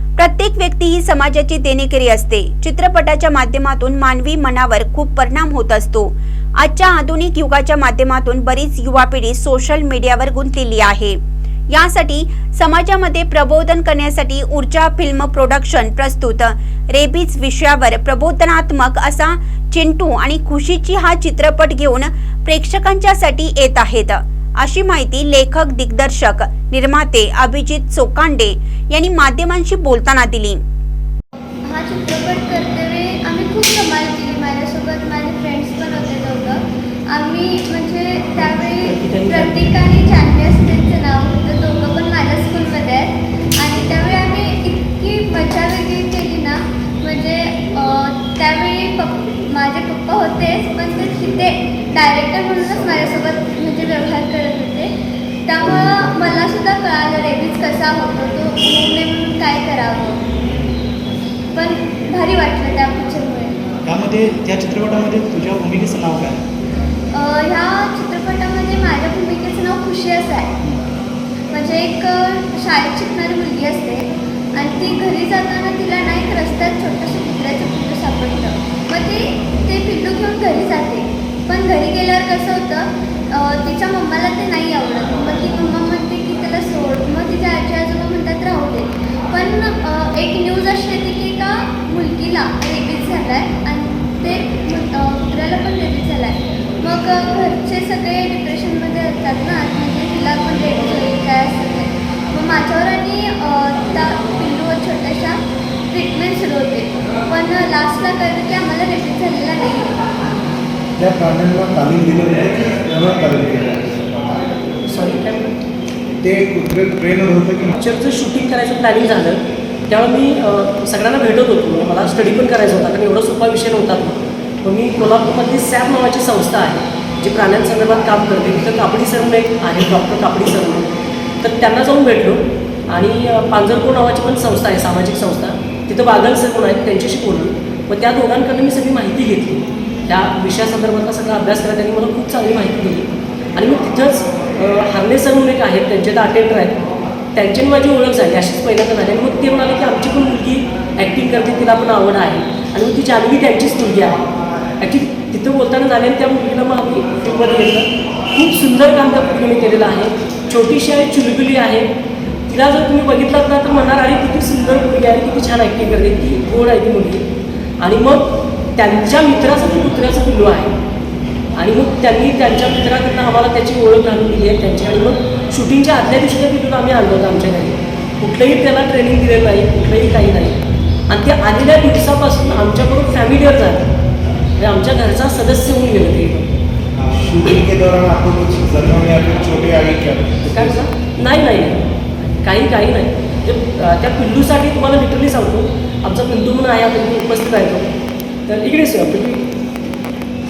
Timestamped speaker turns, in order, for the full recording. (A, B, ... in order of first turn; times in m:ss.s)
0:00.2-0:11.2 A
0:11.7-0:30.6 A
0:31.7-0:54.9 B
0:38.4-0:39.8 C
0:55.5-1:00.2 B
1:01.5-1:03.6 B
1:03.9-1:06.4 D
1:07.1-1:10.5 B
1:11.5-1:45.4 B
1:45.9-1:50.0 B
1:51.0-1:54.0 E
1:54.9-1:55.5 C
1:56.2-1:57.8 E
1:57.8-2:10.9 C
2:11.4-2:26.8 C
2:27.3-2:34.2 C
2:34.8-2:41.9 C
2:42.5-2:47.2 C
2:47.8-2:50.7 C
2:51.6-3:03.9 C
3:04.6-3:06.4 C
3:07.0-3:10.8 E
3:10.5-3:11.8 C
3:12.4-3:17.9 C
3:18.5-3:19.5 C